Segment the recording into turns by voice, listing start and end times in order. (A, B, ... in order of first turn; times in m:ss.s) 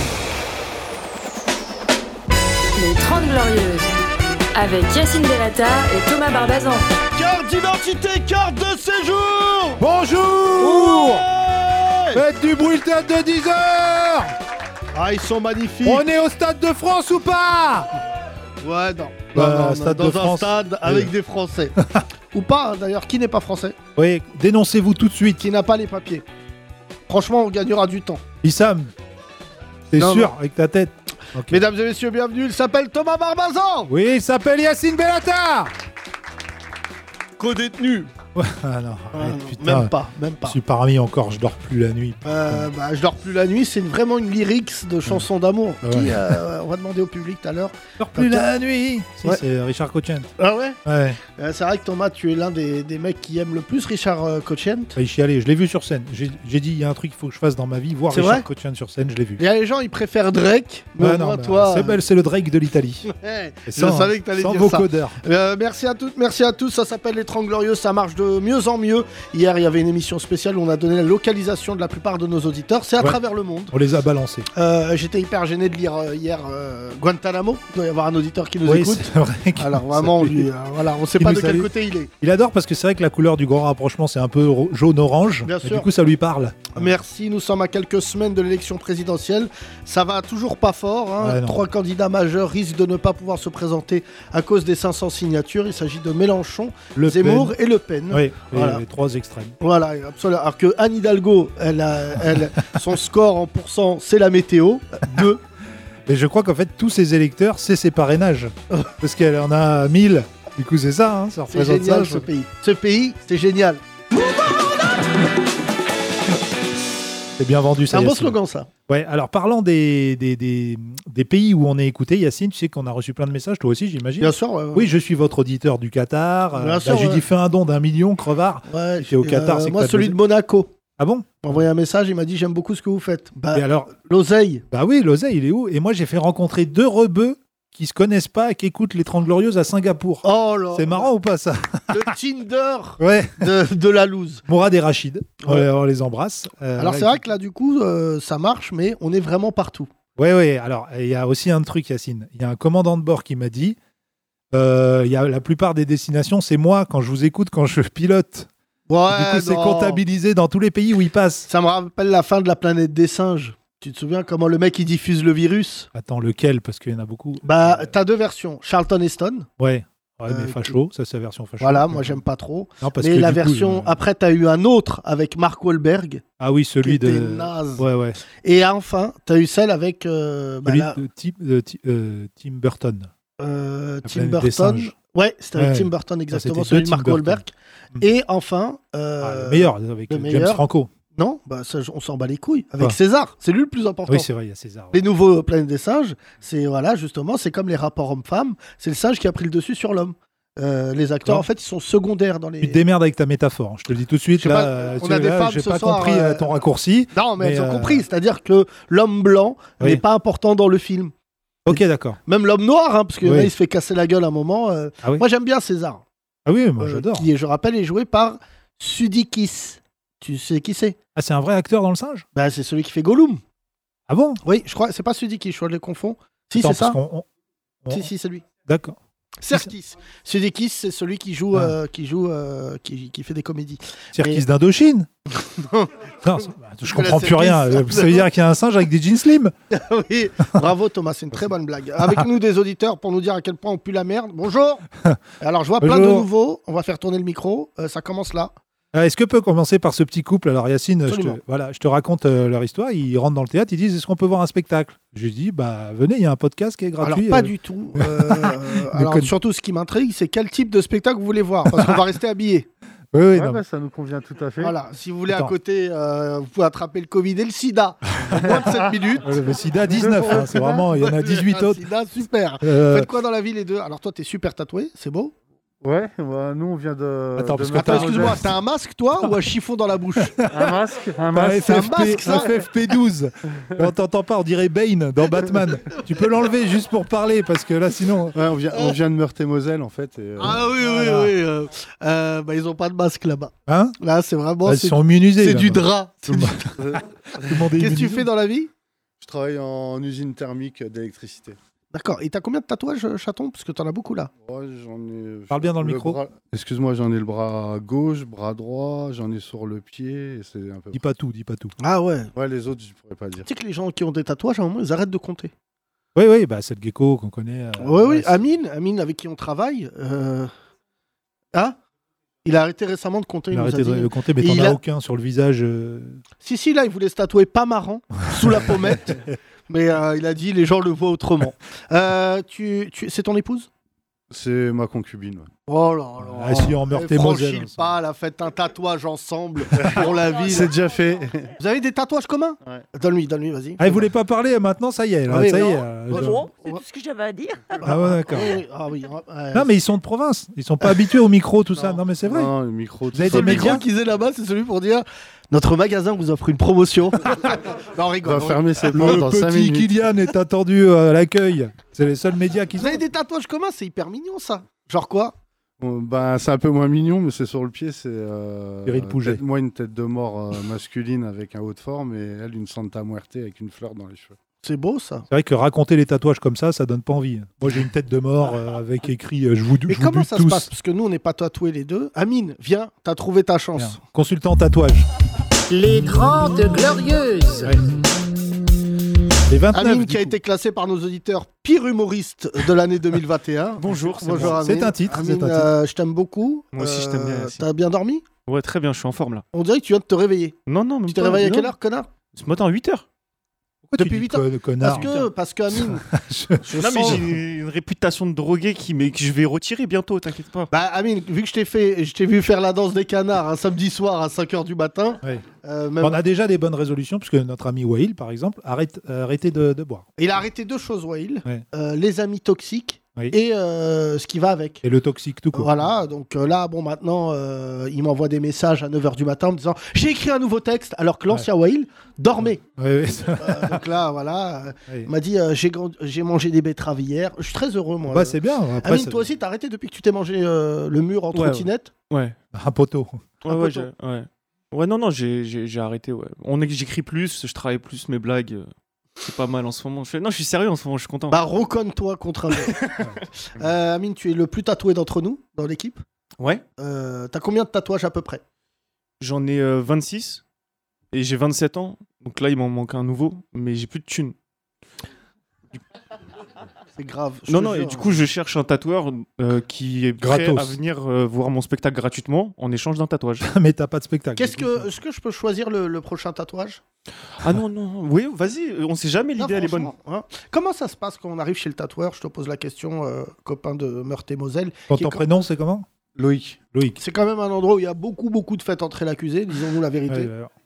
0:02.7-0:03.9 A
0:04.5-0:06.9 A
0:07.1-0:09.8 B
0:09.8-0:11.2 C
0:10.6-0:12.2 B
0:12.1-0:14.3 C
0:14.9-0:16.0 B
0:15.8-0:17.9 C
0:18.6-0:21.8 B
0:19.3-0:21.1 C
0:21.8-0:22.0 C
0:22.3-0:23.8 B
0:24.0-0:25.4 C
0:25.4-0:26.2 B
0:27.1-0:28.2 B
0:28.4-0:28.9 C
0:29.9-0:31.6 C
0:30.0-0:30.3 B
0:31.5-0:33.9 B
0:33.9-0:35.7 C
0:37.4-0:38.1 B
0:38.3-0:39.9 C
0:39.1-0:40.6 B
0:40.4-0:42.7 C
0:42.2-0:48.5 B
0:45.8-0:46.4 C
0:48.0-0:50.3 C
0:50.4-0:55.0 B
0:50.8-0:51.2 C
0:55.0-0:59.4 C
0:58.1-0:58.4 B
0:59.4-1:02.0 B
1:01.0-1:03.1 C
1:03.1-1:13.7 B
1:03.6-1:05.2 C
1:13.7-1:14.5 C
1:14.5-1:22.1 B
1:18.6-1:20.5 C
1:21.2-1:27.0 C
1:25.4-1:25.9 B
1:26.7-1:38.8 B
1:31.2-1:31.6 C
1:37.0-1:37.6 C
1:38.1-1:39.6 C
1:39.6-1:45.4 B
1:46.0-1:52.3 C
1:51.5-1:54.9 B
1:57.4-1:58.4 C
1:57.9-1:58.7 B
1:58.9-2:10.2 C
2:04.2-2:04.9 B
2:06.5-2:07.2 B
2:08.7-2:10.7 B
2:11.0-2:11.5 C
2:11.4-2:14.6 B
2:13.5-2:13.9 C
2:14.7-2:22.1 C
2:20.2-2:21.1 B
2:21.9-2:24.4 B
2:23.0-2:23.5 C
2:24.4-2:27.2 C
2:26.8-2:29.9 B
2:30.2-2:33.8 C
2:34.5-2:38.5 C
2:38.9-2:40.0 B
2:39.1-2:41.5 C
2:41.5-2:45.9 B
2:45.9-2:47.9 C
2:47.4-2:49.5 B
2:49.6-2:52.2 C
2:50.3-2:50.8 B
2:51.6-2:56.2 B
2:52.8-2:54.0 C
2:56.4-2:58.2 C
2:56.8-3:01.0 B
3:00.6-3:03.1 C
3:03.4-3:10.6 B
3:04.0-3:04.9 C
3:05.5-3:07.4 C
3:09.2-3:10.9 C
3:11.1-3:14.3 B
3:14.1-3:15.0 C
3:14.9-3:22.8 B
3:22.6-3:28.0 C
3:24.4-3:26.6 B
3:27.1-3:31.1 B
3:31.6-3:32.2 C
3:31.7-3:36.0 B
3:33.2-3:33.5 C
3:36.4-3:37.3 C
3:36.8-3:41.0 B
3:41.1-3:42.2 C
3:42.3-3:43.4 B
3:44.1-3:44.4 C
3:44.4-3:47.0 B
3:46.5-3:47.2 C
3:47.8-3:48.1 C
3:47.9-3:48.4 B
3:48.7-3:49.0 C
3:49.4-3:54.4 B
3:54.1-3:55.1 C
3:55.4-3:55.9 B
3:56.2-3:59.5 C
3:56.8-3:58.3 B
3:59.7-4:04.8 B
4:05.4-4:08.5 B
4:05.8-4:06.3 C
4:08.9-4:19.3 C
4:11.0-4:11.4 B
4:17.0-4:22.7 B
4:21.7-4:22.0 C
4:23.1-4:23.6 C
4:23.3-4:24.8 D
4:24.6-4:29.3 B
4:25.3-4:25.5 C
4:28.3-4:29.0 D
4:29.2-4:31.8 C
4:29.9-4:30.8 D
4:30.3-4:35.3 B
4:32.6-4:33.1 C
4:35.8-4:38.5 D
4:37.3-4:38.5 C
4:37.7-4:40.4 B
4:40.2-4:40.8 C
4:40.5-4:41.9 D
4:41.3-4:48.4 C
4:41.6-4:42.5 B
4:48.3-4:50.7 D
4:50.4-4:56.8 B
4:50.8-4:51.4 C
4:53.7-4:54.0 C
4:54.6-4:56.7 C
4:56.8-4:57.6 D
4:57.4-4:58.3 C
4:57.8-4:58.7 B
4:59.2-5:01.6 D
5:01.9-5:04.3 B
5:04.4-5:11.0 D
5:05.5-5:06.2 C
5:10.9-5:11.7 C
5:11.8-5:12.3 B
5:12.3-5:13.5 D
5:13.4-5:15.5 B
5:16.1-5:18.4 C
5:17.8-5:20.5 B
5:22.4-5:24.8 B
5:23.5-5:26.2 C
5:26.4-5:33.7 B
5:28.4-5:29.1 C
5:34.3-5:35.5 D
5:35.7-5:40.7 B
5:36.2-5:37.8 C
5:39.7-5:41.5 D
5:39.9-5:41.6 E
5:41.6-5:44.0 B
5:43.8-5:46.4 C
5:45.3-5:46.8 B
5:46.1-5:47.9 E
5:47.8-5:49.7 B
5:47.8-5:48.6 C
5:49.5-5:52.5 C
5:52.2-5:53.8 D
5:53.1-5:53.8 C
5:53.1-5:59.2 B
5:58.2-6:00.0 D
5:58.9-6:03.0 C
6:02.8-6:05.3 B
6:05.8-6:14.4 D
6:08.8-6:09.4 C
6:14.6-6:15.2 B
6:15.3-6:20.7 C
6:19.9-6:24.0 B
6:23.8-6:25.1 C
6:25.7-6:27.8 F
6:29.5-6:30.4 C
6:29.7-6:38.2 B
6:33.8-6:34.6 G
6:34.3-6:35.7 C
6:36.7-6:37.6 G
6:38.4-6:39.4 G
6:39.5-6:42.1 B
6:40.7-6:41.7 G
6:42.3-6:43.0 G
6:43.9-6:45.1 C
6:44.0-6:46.0 B
6:45.0-6:45.2 G
6:45.7-6:47.2 C
6:46.6-6:47.2 B
6:46.8-6:50.7 G
6:50.7-6:56.2 B
6:56.0-7:00.1 C
7:00.2-7:04.8 B
7:04.8-7:05.9 C
7:05.5-7:12.6 B
7:12.7-7:13.8 C
7:13.4-7:21.9 B
7:18.1-7:19.2 C
7:21.3-7:22.4 G
7:22.5-7:23.2 C
7:23.4-7:31.4 G
7:23.5-7:23.9 B
7:31.3-7:32.8 B
7:33.4-7:36.0 B
7:36.4-7:36.6 G
7:36.8-7:38.4 B
7:39.2-7:40.4 G
7:41.1-7:44.3 G
7:47.0-7:48.1 B
7:47.5-7:53.5 G
7:50.2-7:50.8 C
7:53.4-7:54.9 C
7:54.4-7:56.8 B
7:57.4-7:59.9 G
7:59.4-8:05.2 B
8:04.9-8:05.9 C
8:06.1-8:06.6 D
8:06.7-8:07.0 C
8:07.0-8:10.3 B
8:10.1-8:10.5 C